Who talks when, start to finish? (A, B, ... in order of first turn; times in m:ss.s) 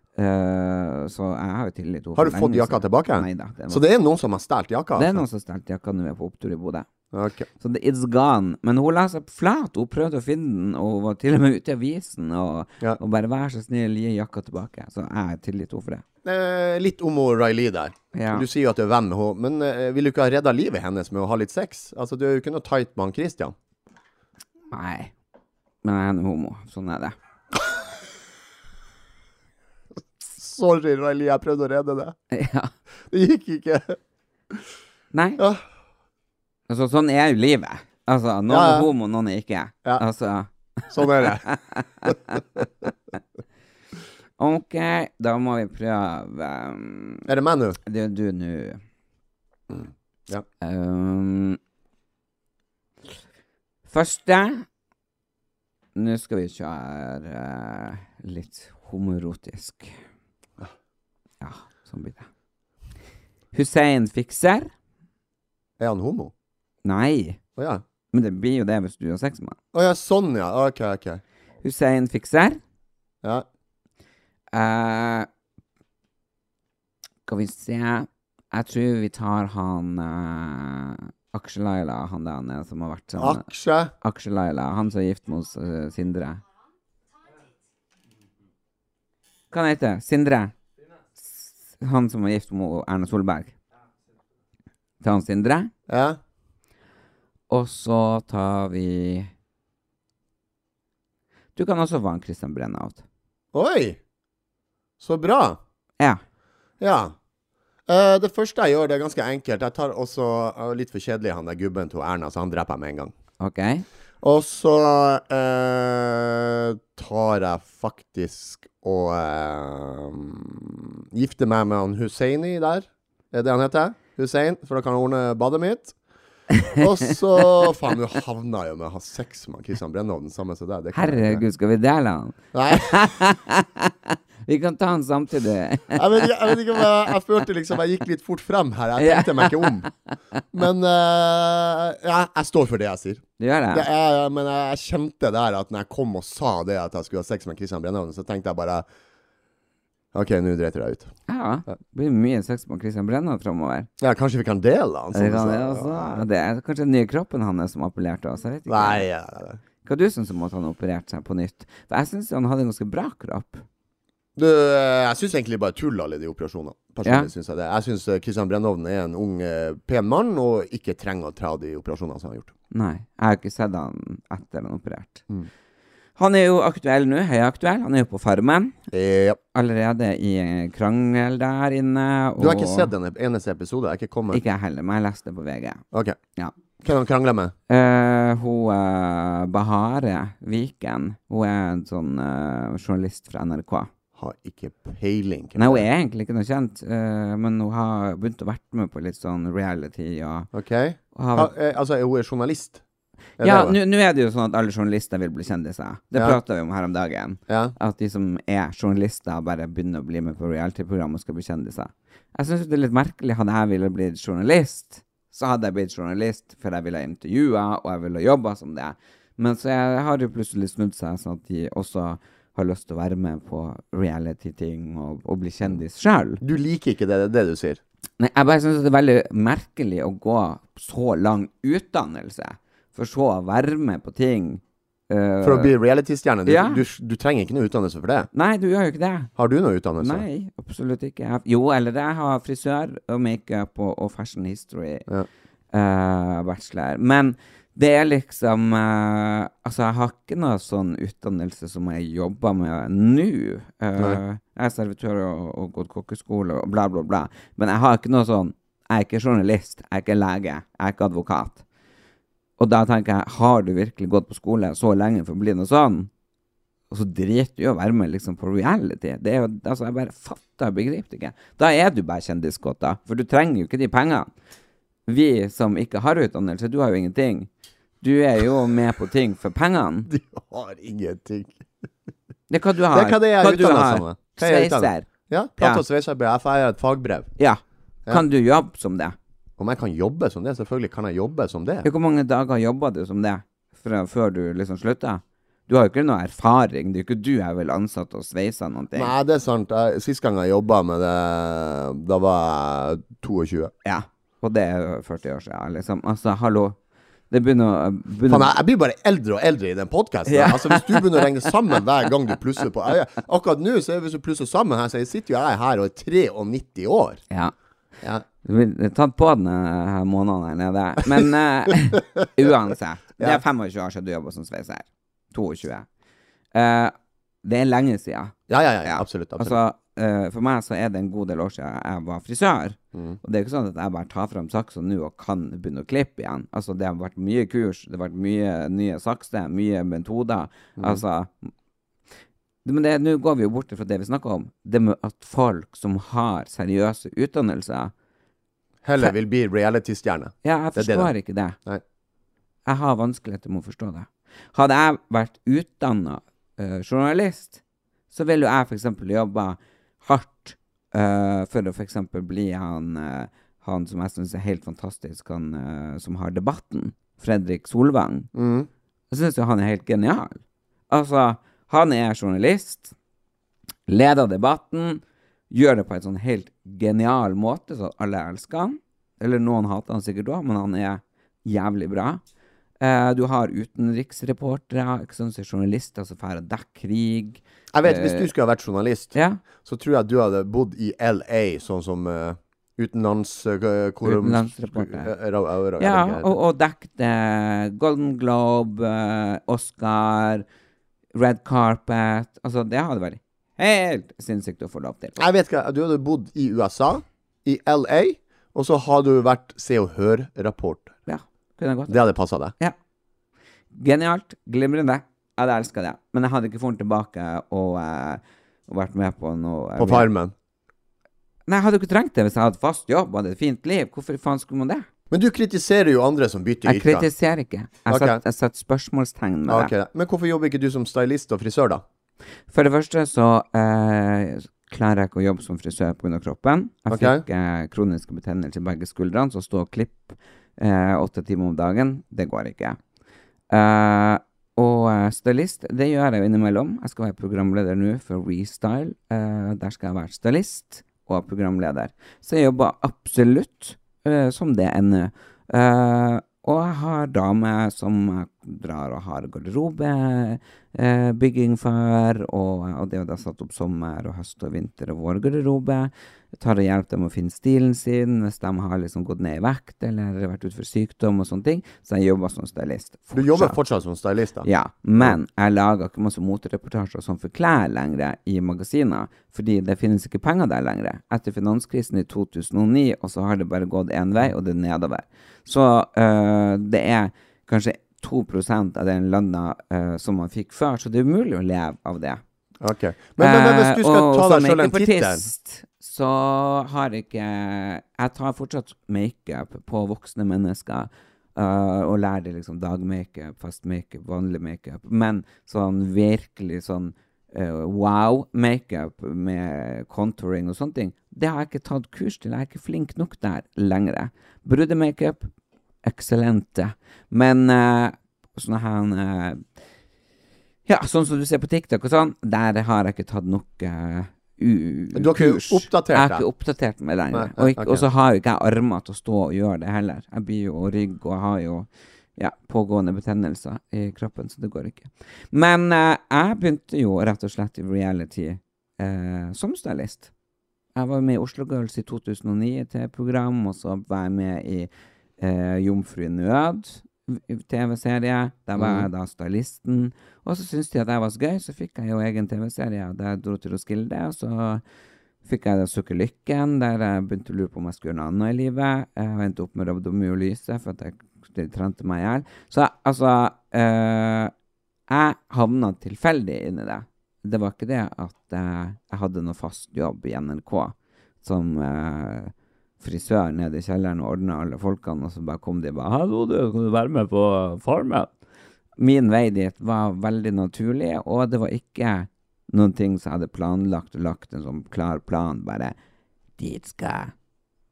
0:00.2-0:03.8 A
0:02.1-0:05.2 B
0:04.9-0:06.9 A
0:07.1-0:07.5 B
0:07.6-0:16.0 A
0:16.2-0:23.5 B
0:18.1-0:18.4 A
0:24.7-0:25.1 A
0:25.8-0:27.1 A
0:30.3-0:32.2 B
0:32.3-0:32.7 A
0:33.1-0:34.0 B
0:35.1-0:35.4 A
0:35.4-0:35.6 B
0:36.7-0:42.4 A
0:38.5-0:38.9 B
0:40.9-0:41.5 B
0:42.0-0:42.6 B
0:44.4-0:47.3 A
0:47.3-0:47.8 B
0:47.8-0:48.8 A
0:49.7-0:50.4 B
0:50.6-0:51.6 A
0:53.9-0:54.6 A
0:55.9-1:00.0 A
1:01.4-1:02.2 A
1:03.5-1:04.7 A
1:05.8-1:06.3 B
1:06.8-1:07.4 A
1:07.6-1:07.8 B
1:08.1-1:09.6 A
1:09.7-1:11.2 B
1:11.6-1:12.6 A
1:14.5-1:15.3 A
1:17.2-1:23.5 A
1:23.2-1:23.9 B
1:24.0-1:26.4 A
1:29.5-1:30.5 A
1:31.2-1:33.5 A
1:35.0-1:35.7 A
1:35.9-1:36.2 B
1:37.5-1:39.3 A
1:41.6-1:43.0 A
1:43.5-1:44.0 B
1:45.0-1:45.6 B
1:46.8-1:47.2 B
1:47.9-1:53.1 B
1:53.4-1:53.8 A
1:54.2-2:05.9 B
2:06.5-2:07.7 A
2:06.7-2:11.4 B
2:10.9-2:16.9 A
2:12.5-2:13.2 B
2:15.9-2:19.9 B
2:19.0-2:19.9 A
2:20.5-2:28.8 B
2:23.4-2:23.9 A
2:30.1-2:31.1 B
2:31.3-2:33.9 A
2:34.0-2:36.2 B
2:35.1-2:39.0 A
2:38.7-2:39.6 B
2:39.8-2:43.6 A
2:44.4-2:52.5 B
2:47.0-2:47.3 A
2:52.7-2:55.3 A
2:56.2-2:58.8 A
2:58.9-2:59.4 B
2:59.5-3:02.9 A
3:02.4-3:04.4 B
3:04.3-3:05.8 A
3:05.9-3:06.2 B
3:06.8-3:07.5 B
3:07.7-3:13.9 A
3:14.2-3:15.8 B
3:15.6-3:20.5 A
3:20.5-3:22.8 B
3:21.1-3:21.5 A
3:23.4-3:23.8 B
3:23.4-3:46.4 A
3:26.1-3:26.4 B
3:27.5-3:27.8 B
3:46.4-3:47.8 B
3:48.2-3:55.7 A
3:55.4-3:58.3 B
3:56.4-3:56.8 A
3:58.3-3:59.3 A
3:59.4-4:00.2 B
4:00.0-4:05.0 A
4:05.7-4:21.6 A
4:22.6-4:26.1 A
4:26.9-4:34.3 A
4:35.1-4:37.5 A
4:38.0-4:40.1 A
4:40.1-4:41.6 B
4:42.5-4:45.8 A
4:42.9-4:47.3 B
4:47.4-4:49.1 A
4:49.6-4:51.9 B
4:51.8-4:59.1 A
4:58.9-5:03.7 B
5:03.8-5:06.8 A
5:07.3-5:08.5 A
5:08.3-5:17.2 B
5:10.3-5:11.4 A
5:18.4-5:25.8 A
5:21.1-5:22.2 B
5:23.2-5:23.4 B
5:26.5-5:41.5 A
5:28.5-5:29.6 B
5:32.9-5:33.2 B
5:40.8-5:41.0 B
5:42.6-5:47.9 A
5:48.8-5:51.1 B
5:50.4-5:51.6 A
5:52.6-5:57.6 A
5:58.1-6:08.3 A
6:08.3-6:08.7 B
6:09.1-6:12.9 A
6:13.9-6:22.2 A
6:22.8-6:28.3 A
6:27.7-6:36.4 B
6:29.1-6:29.4 A
6:34.0-6:35.1 A
6:35.8-6:40.4 A
6:41.1-6:45.2 A
6:45.2-6:50.9 B
6:51.1-6:52.0 A
6:51.9-6:52.5 B
6:53.7-7:00.1 A
6:59.8-7:00.3 B
7:01.5-7:04.9 A
7:05.1-7:07.1 B
7:06.6-7:09.7 A
7:07.9-7:08.2 B
7:09.5-7:11.8 B
7:12.5-7:22.8 A
7:16.9-7:17.2 B
7:23.5-7:53.6 A
7:53.1-7:55.2 B
7:54.4-8:12.2 A
8:12.6-8:15.3 B
8:13.2-8:35.3 A
8:35.8-8:39.4 A
8:40.7-9:00.1 A
8:44.9-8:46.2 B
8:47.1-8:47.8 B
9:00.7-9:14.6 A
9:08.6-9:08.9 B
9:15.2-9:24.3 A
9:24.9-9:38.1 A
9:38.8-9:45.7 A
9:46.4-9:47.1 A